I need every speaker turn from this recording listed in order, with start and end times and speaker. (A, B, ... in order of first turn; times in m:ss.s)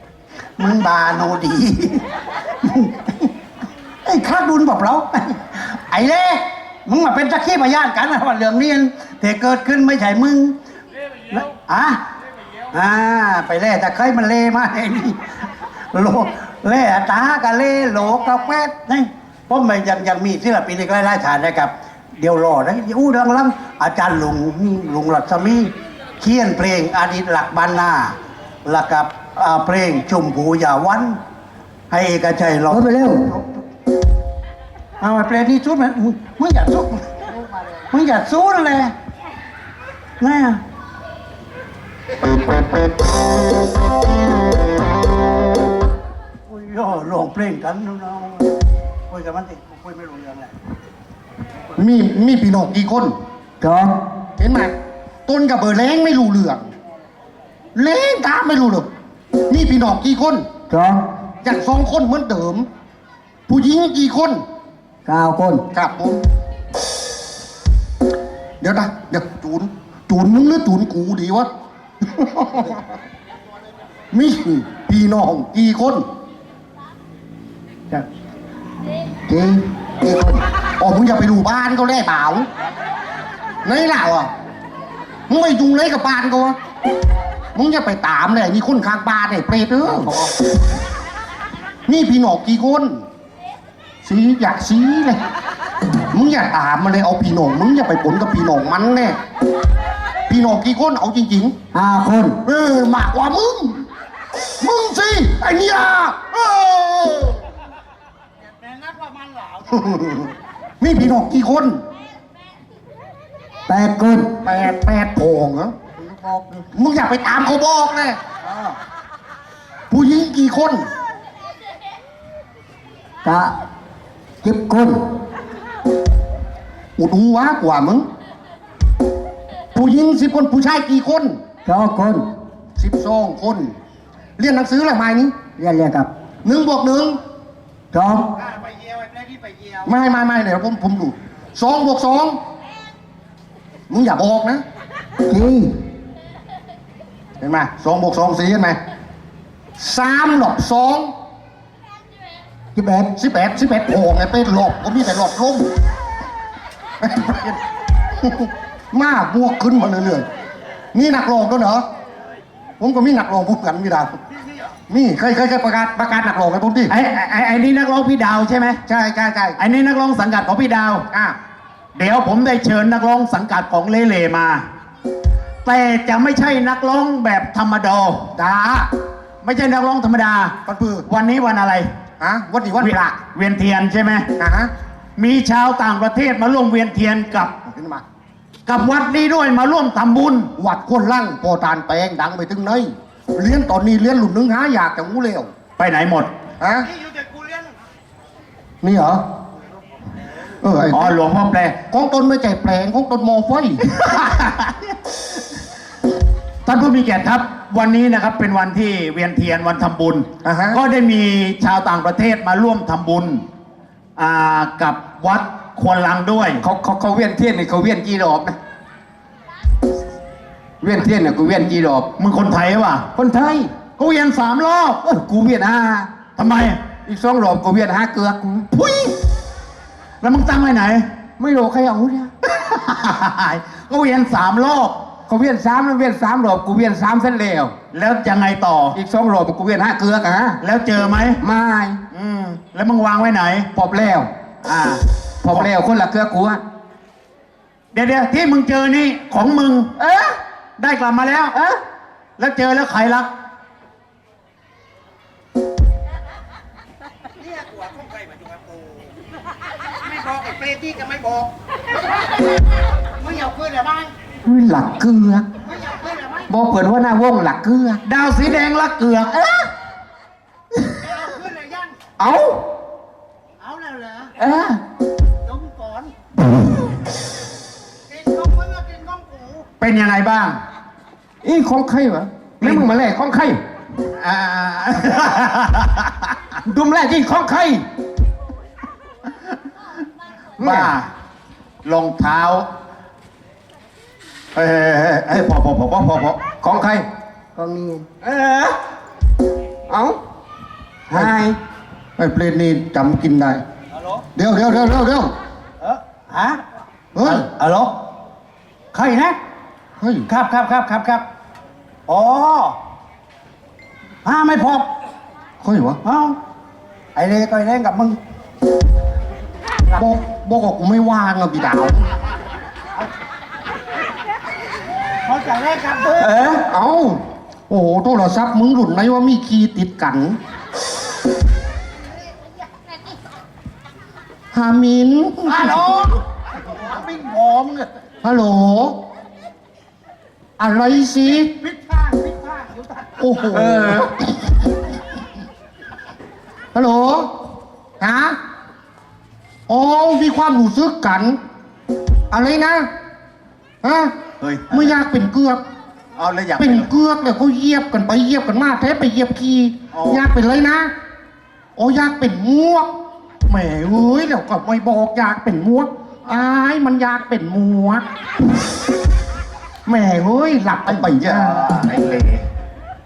0:00.6-0:02.0 A
0:02.6-0:03.3 A
0:04.0-0:10.6 A
0:11.3-0:12.0 A
0:12.7-0:15.4 A
0:15.9-0:31.2 A
0:31.9-0:33.4 A
0:32.7-0:33.3 B
0:35.0-0:38.9 A
0:40.2-0:40.6 A
0:46.5-0:48.5 A
0:49.1-0:50.5 A
0:51.8-0:53.2 C
0:53.6-0:54.0 B
0:54.4-0:54.7 C
0:55.2-0:56.7 C
0:57.7-0:58.9 C
0:59.5-1:00.5 C
1:00.7-1:01.1 B
1:01.4-1:02.7 C
1:03.5-1:04.4 C
1:05.0-1:05.6 B
1:05.7-1:06.2 C
1:08.6-1:11.5 C
1:12.0-1:12.8 C
1:14.1-1:16.0 C
1:19.3-1:20.4 B
1:20.8-1:22.5 C
1:23.6-1:24.3 C
1:25.3-1:26.6 C
1:27.5-1:30.3 C
1:31.8-1:33.0 C
1:34.0-1:35.2 C
1:36.1-1:39.2 C
1:40.3-1:41.6 C
1:41.7-1:42.4 B
1:42.4-1:43.8 C
1:44.6-1:47.4 C
1:48.7-1:49.7 A
1:50.8-1:51.8 C
1:53.7-1:54.4 B
1:54.4-1:55.8 C
1:56.6-1:58.2 C
1:59.9-2:00.9 C
2:03.2-2:03.5 B
2:04.4-2:05.1 B
2:07.0-2:08.1 C
2:09.7-2:11.4 C
2:11.6-2:12.2 B
2:12.8-2:13.7 C
2:14.4-2:15.3 C
2:15.6-2:16.1 B
2:16.4-2:17.2 C
2:17.9-2:18.3 B
2:19.8-2:22.4 C
2:23.9-2:24.6 C
2:25.3-2:25.8 B
2:27.4-2:28.8 C
2:29.8-2:31.1 C
2:32.7-2:33.1 B
2:33.1-2:35.7 C
2:37.0-2:37.6 C
2:38.2-2:40.3 C
2:40.9-2:41.9 C
2:42.8-2:44.2 C
2:44.9-2:46.9 C
2:46.9-2:48.8 D
2:48.9-2:49.6 C
2:49.6-2:51.0 D
2:51.1-2:51.4 C
2:52.0-2:54.6 D
2:55.6-2:58.3 D
2:58.3-2:58.9 C
2:59.4-3:00.6 D
3:00.6-3:01.0 C
3:01.1-3:01.9 D
3:02.2-3:03.0 C
3:02.8-3:04.3 D
3:04.4-3:04.7 C
3:05.2-3:07.5 D
3:07.7-3:08.0 C
3:08.6-3:10.5 D
3:10.6-3:15.5 C
3:15.8-3:16.3 D
3:16.6-3:16.9 C
3:17.0-3:17.5 A
3:18.8-3:19.2 C
3:20.6-3:21.2 C
3:20.9-3:21.8 D
3:21.9-3:24.0 C
3:23.9-3:24.8 D
3:26.6-3:33.4 D
3:30.4-3:30.8 C
3:34.2-3:36.6 D
3:36.6-3:38.6 E
3:40.8-3:42.1 E
3:42.2-3:43.1 D
3:43.1-3:43.8 E
3:43.8-3:45.0 D
3:45.0-3:46.1 E
3:46.2-3:46.8 D
3:47.0-3:49.1 E
3:50.2-3:51.0 D
3:51.4-3:52.3 E
3:52.5-3:55.0 D
3:55.3-3:57.7 E
3:57.9-3:59.0 D
3:58.9-4:00.6 E
4:00.6-4:01.4 D
4:01.4-4:02.0 E
4:02.1-4:03.7 D
4:03.7-4:04.3 E
4:04.6-4:05.7 D
4:05.4-4:06.6 E
4:07.9-4:09.9 D
4:10.0-4:10.4 E
4:10.8-4:11.5 D
4:11.5-4:11.8 E
4:12.4-4:13.3 D
4:17.4-4:18.9 A
4:20.0-4:21.5 A
4:23.2-4:24.1 A
4:24.4-4:25.5 E
4:25.7-4:26.5 A
4:26.5-4:28.0 E
4:28.0-4:29.5 D
4:31.1-4:31.9 A
4:32.2-4:32.6 E
4:33.6-4:34.3 A
4:34.4-4:34.8 E
4:35.4-4:36.1 A
4:38.1-4:39.6 A
4:39.8-4:40.6 D
4:41.4-4:43.6 E
4:42.6-4:42.9 D
4:44.2-4:46.1 D
4:46.6-4:47.8 E
4:50.6-4:50.9 E
4:50.6-4:51.1 D
4:51.8-4:52.6 D
4:54.5-4:56.4 D
4:56.6-4:57.0 E
4:57.6-4:58.0 B
4:58.2-4:58.8 A
4:59.9-5:00.2 E
5:01.1-5:01.6 A
5:02.2-5:03.6 C
5:03.9-5:04.2 A
5:04.3-5:05.3 C
5:05.8-5:06.6 A
5:07.1-5:07.5 C
5:07.2-5:08.1 A
5:08.9-5:09.4 A
5:10.0-5:10.3 C
5:10.3-5:11.2 A
5:12.1-5:12.8 A
5:14.2-5:14.9 A
5:15.6-5:16.0 C
5:16.0-5:16.4 A
5:17.2-5:18.2 A
5:20.0-5:22.0 C
5:25.2-5:26.4 A
5:26.2-5:26.6 E
5:26.6-5:30.4 C
5:34.5-5:35.9 C
5:35.5-5:37.9 A
5:38.2-5:39.0 C
5:40.6-5:41.5 C
5:41.6-5:42.9 A
5:43.2-5:44.1 C
5:43.5-5:44.2 E
5:46.7-5:47.4 C
5:48.0-5:48.4 C
5:49.7-5:51.4 C
5:52.3-5:52.9 C
5:53.8-5:54.2 C
5:54.4-5:54.9 D
5:54.7-5:55.6 C
5:56.2-5:56.9 D
5:56.6-6:00.9 C
5:59.9-6:00.2 D
6:01.8-6:03.0 C
6:03.5-6:08.0 C
6:09.8-6:11.8 C
6:10.9-6:12.4 D